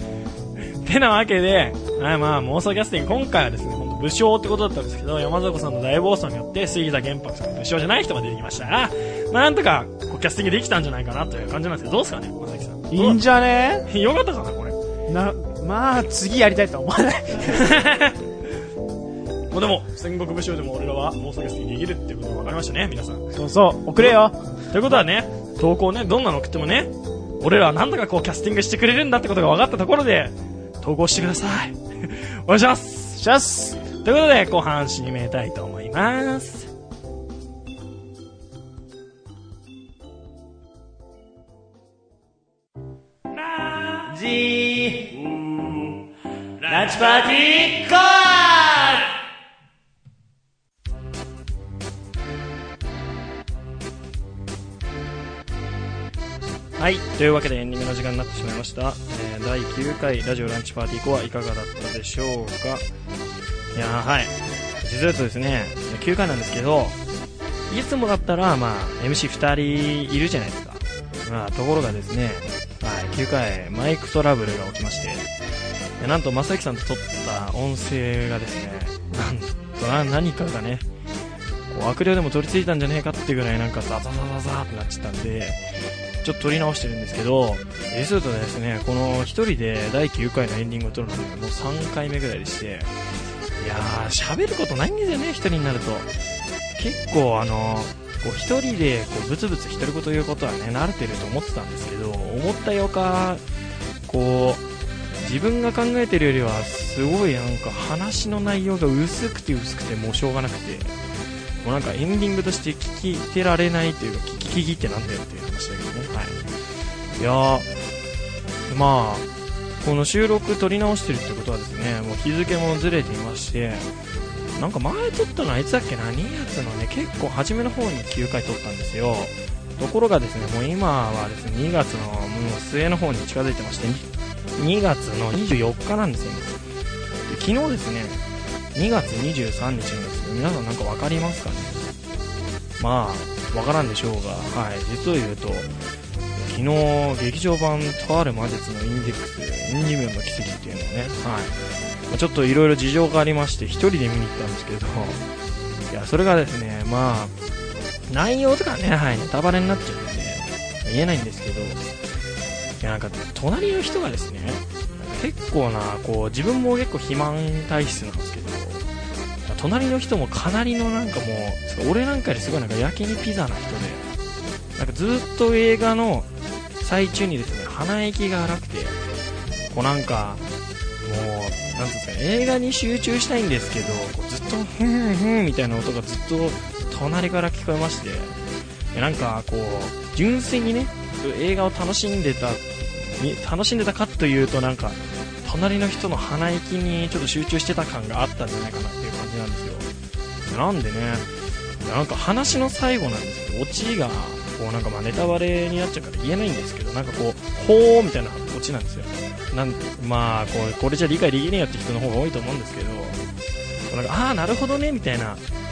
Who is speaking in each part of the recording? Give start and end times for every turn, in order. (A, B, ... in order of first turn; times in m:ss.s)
0:00.8-0:13.2 A
0:12.9-0:13.9 B
0:13.9-0:14.8 A
0:15.1-0:17.8 B
0:17.4-0:18.2 A
0:19.5-0:23.2 A
0:23.3-0:24.4 B
0:24.0-0:33.2 A
0:33.2-0:33.8 B
0:34.0-0:36.7 A
0:43.4-0:44.1 A
0:44.1-0:45.5 C
0:46.6-0:47.3 A
0:46.7-0:49.1 C
0:56.8-1:02.8 A
1:03.7-1:07.0 A
1:07.7-1:15.3 A
1:16.0-1:20.9 A
1:21.7-1:25.6 A
1:26.2-1:32.9 A
1:33.6-1:36.1 A
1:36.8-1:43.4 A
1:44.1-1:44.6 A
1:45.2-1:51.0 A
1:51.6-1:56.4 A
1:57.2-1:57.7 A
1:58.7-1:59.3 A
1:59.8-2:03.9 A
2:04.6-2:16.5 A
2:17.3-2:18.2 A
2:18.8-2:21.9 A
2:22.8-2:25.7 A
2:26.4-2:31.6 A
2:32.1-2:35.2 A
2:35.9-2:37.3 A
2:38.1-2:41.8 A
2:42.8-2:48.8 A
2:49.5-2:54.0 A
2:54.8-2:56.3 A
2:56.8-2:59.0 A
2:59.7-3:00.4 A
3:01.0-3:08.4 A
3:08.9-3:19.9 A
3:20.5-3:21.3 A
3:21.8-3:33.2 A
3:33.9-3:35.4 A